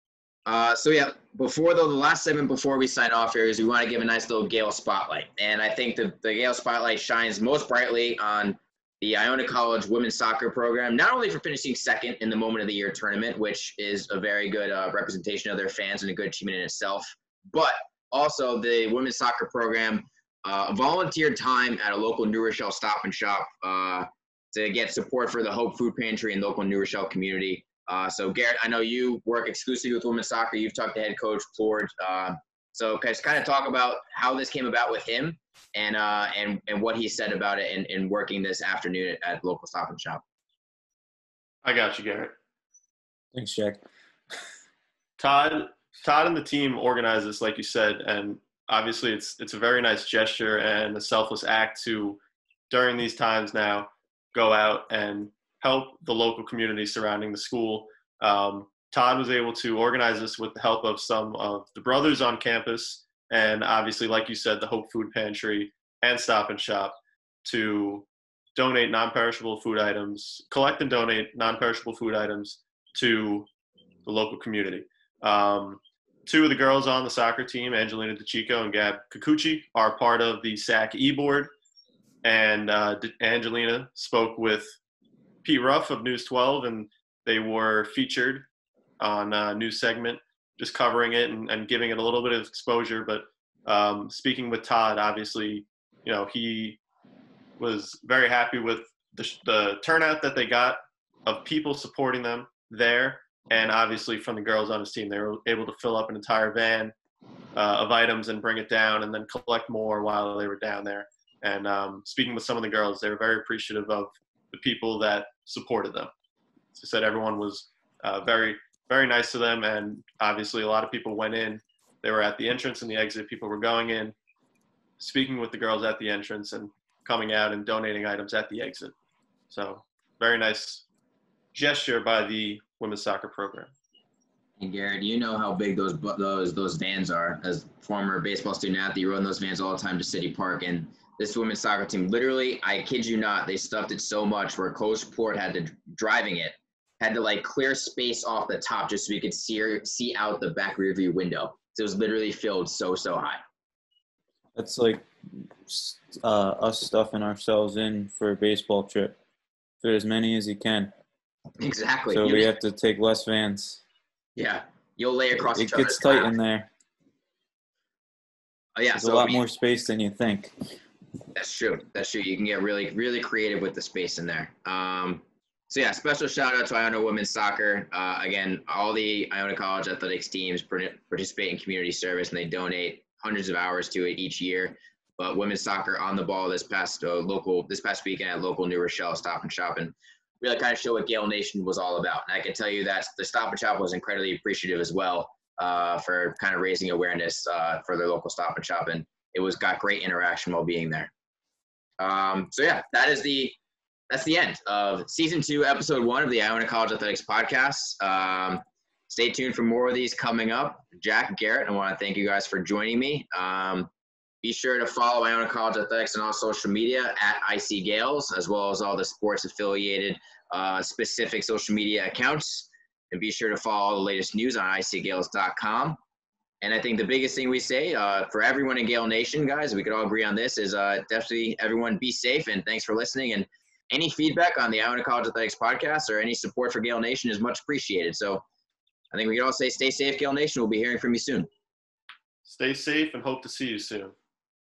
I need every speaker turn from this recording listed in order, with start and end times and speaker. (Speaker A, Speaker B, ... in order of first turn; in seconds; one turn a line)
Speaker A: 0.5-40.2
Speaker B: 41.6-42.3
Speaker C: 43.3-43.8
Speaker B: 45.2-73.5
Speaker B: 74.0-81.5
Speaker B: 82.2-84.7
Speaker B: 85.4-88.5
Speaker B: 89.0-96.8
Speaker B: 97.6-106.9
Speaker B: 107.5-116.1
Speaker B: 116.7-124.1
Speaker B: 125.0-128.9
Speaker B: 129.5-130.8
Speaker B: 131.5-133.7
Speaker A: 134.6-153.4
Speaker C: 154.5-159.2
Speaker C: 159.8-160.9
Speaker A: 161.6-162.5
Speaker C: 162.1-163.8
Speaker A: 164.4-166.3
Speaker C: 165.5-166.7
Speaker A: 168.8-169.4
Speaker C: 168.9-170.5
Speaker A: 171.3-201.1
Speaker A: 202.0-203.6
Speaker A: 204.1-213.9
Speaker A: 214.4-226.0
Speaker A: 226.6-238.4
Speaker A: 239.1-241.5
Speaker B: 242.4-244.1